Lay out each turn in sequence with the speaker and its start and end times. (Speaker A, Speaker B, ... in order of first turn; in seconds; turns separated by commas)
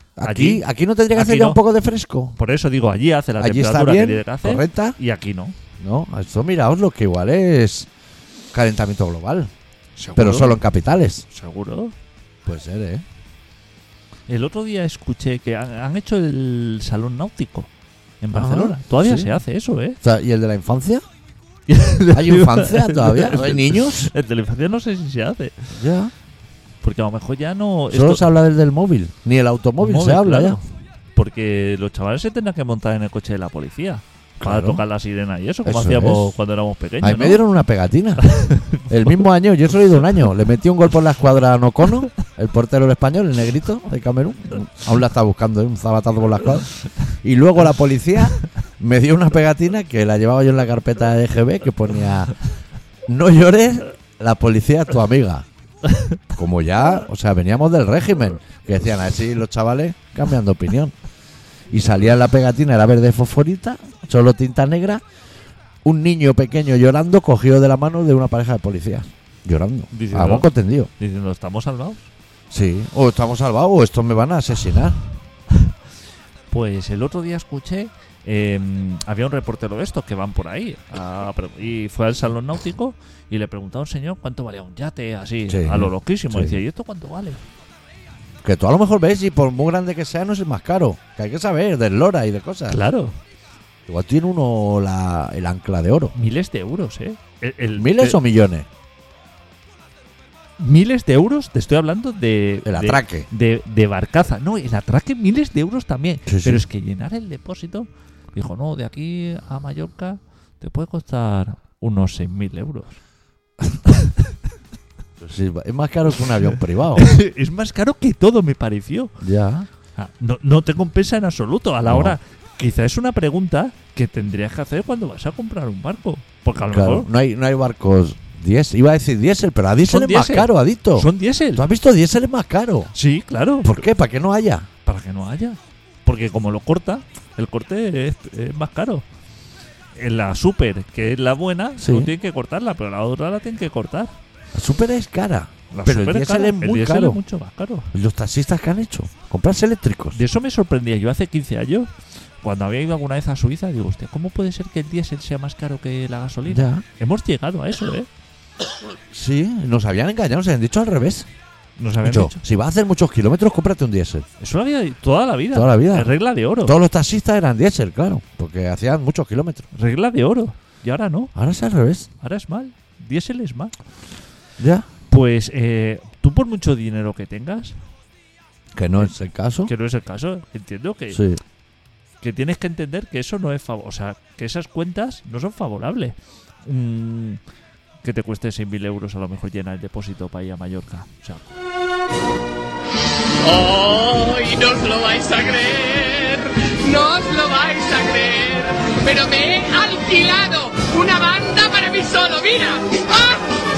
Speaker A: 0.2-2.4, Speaker B: 0.2-1.6, Speaker B: 2.4-5.6, Speaker A: 3.4-5.0, Speaker A: 5.8-7.9, Speaker A: 8.5-9.5, Speaker B: 10.0-10.6, Speaker A: 10.2-11.2, Speaker B: 11.3-11.9, Speaker A: 12.4-13.1, Speaker B: 14.3-17.7, Speaker B: 18.2-20.0, Speaker A: 18.3-19.4, Speaker A: 20.0-21.0, Speaker B: 21.7-25.6, Speaker A: 22.1-24.1, Speaker A: 25.8-26.1, Speaker B: 26.8-28.2, Speaker A: 27.9-30.6, Speaker B: 29.8-30.6, Speaker B: 31.2-37.4, Speaker A: 34.4-34.8, Speaker A: 35.6-36.4, Speaker A: 37.0-38.3, Speaker B: 38.2-39.2, Speaker A: 38.9-52.4, Speaker A: 53.1-55.5, Speaker B: 55.8-56.2, Speaker A: 56.4-60.9, Speaker A: 61.7-65.0, Speaker A: 65.8-70.9, Speaker B: 69.9-72.1, Speaker A: 72.5-75.0, Speaker B: 76.5-87.4, Speaker A: 85.5-86.6, Speaker A: 88.4-92.8, Speaker B: 92.7-93.2, Speaker A: 93.9-96.1, Speaker B: 96.2-98.2, Speaker A: 97.8-98.7, Speaker B: 100.6-113.0, Speaker A: 102.7-103.3, Speaker A: 106.3-106.7, Speaker B: 113.9-114.1, Speaker A: 115.2-117.1, Speaker B: 117.0-119.1, Speaker A: 119.2-119.7, Speaker B: 120.0-127.1, Speaker A: 121.8-122.2, Speaker A: 126.7-132.9, Speaker B: 129.9-131.7, Speaker B: 132.9-133.8, Speaker A: 133.6-134.7, Speaker B: 134.8-139.0, Speaker B: 140.0-144.1, Speaker A: 141.8-142.1, Speaker A: 144.5-147.2, Speaker B: 145.7-147.9, Speaker A: 147.9-150.2, Speaker B: 150.1-151.9, Speaker B: 152.4-158.1, Speaker A: 156.5-156.8, Speaker A: 159.1-161.3, Speaker B: 161.8-162.4, Speaker A: 162.0-164.3, Speaker B: 164.4-166.8, Speaker A: 165.5-169.7, Speaker B: 169.7-171.3, Speaker A: 171.3-172.1, Speaker B: 172.2-173.7, Speaker A: 174.6-174.9, Speaker B: 175.1-177.8, Speaker A: 178.8-179.7, Speaker B: 179.7-181.2, Speaker A: 181.1-181.4, Speaker B: 182.2-187.4, Speaker B: 188.0-191.4, Speaker C: 193.4-203.5